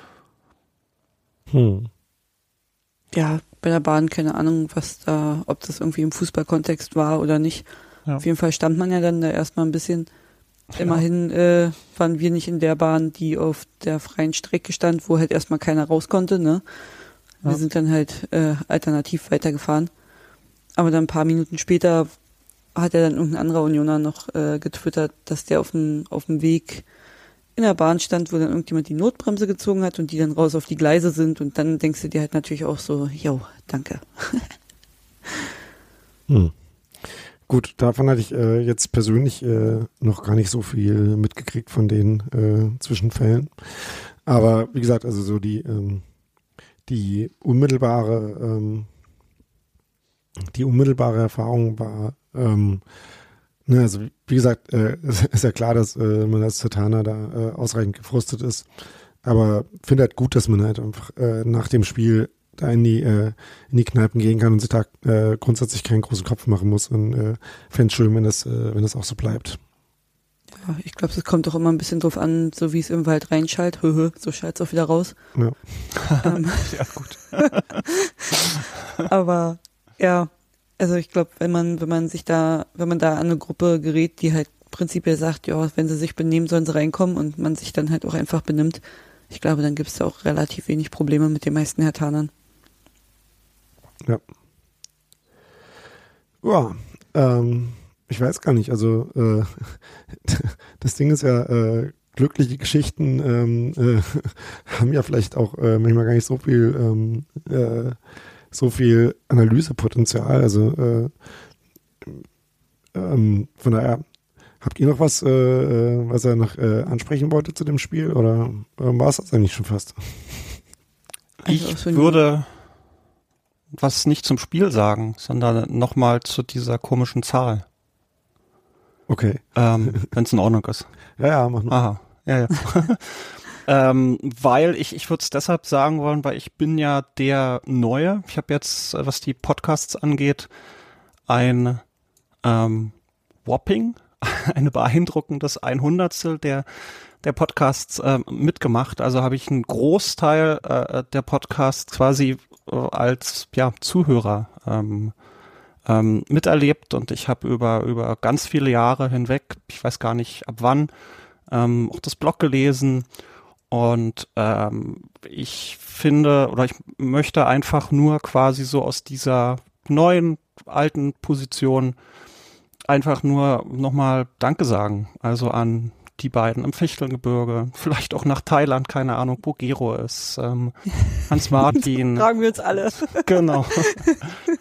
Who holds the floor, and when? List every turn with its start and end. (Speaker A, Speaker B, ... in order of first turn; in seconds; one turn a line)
Speaker A: 1.5-1.9
Speaker B: 3.1-7.7
Speaker B: 8.2-10.1
Speaker C: 10.8-11.0
Speaker B: 10.8-16.6
Speaker B: 17.4-19.9
Speaker B: 20.8-22.1
Speaker B: 22.7-26.9
Speaker B: 27.6-34.5
Speaker A: 36.3-36.5
Speaker A: 37.0-46.0
Speaker A: 46.9-48.9
Speaker A: 50.5-52.8
Speaker A: 53.6-58.7
Speaker A: 59.2-69.6
Speaker B: 70.6-75.2
Speaker C: 76.0-77.7
Speaker B: 76.2-76.8
Speaker B: 77.4-78.5
Speaker B: 79.0-92.3
Speaker A: 96.4-108.0
Speaker A: 108.5-111.1
Speaker A: 112.9-114.0
Speaker A: 114.6-120.6
Speaker B: 121.4-122.2
Speaker C: 121.5-122.6
Speaker C: 123.7-127.6
Speaker A: 129.1-130.0
Speaker C: 129.6-130.9
Speaker A: 131.2-131.8
Speaker C: 131.7-140.5
Speaker C: 141.3-141.8
Speaker C: 142.4-142.9
Speaker C: 143.4-155.1
Speaker C: 155.8-160.9
Speaker C: 161.5-163.1
Speaker C: 163.7-172.0
Speaker C: 172.8-182.3
Speaker B: 182.1-184.2
Speaker C: 183.1-184.3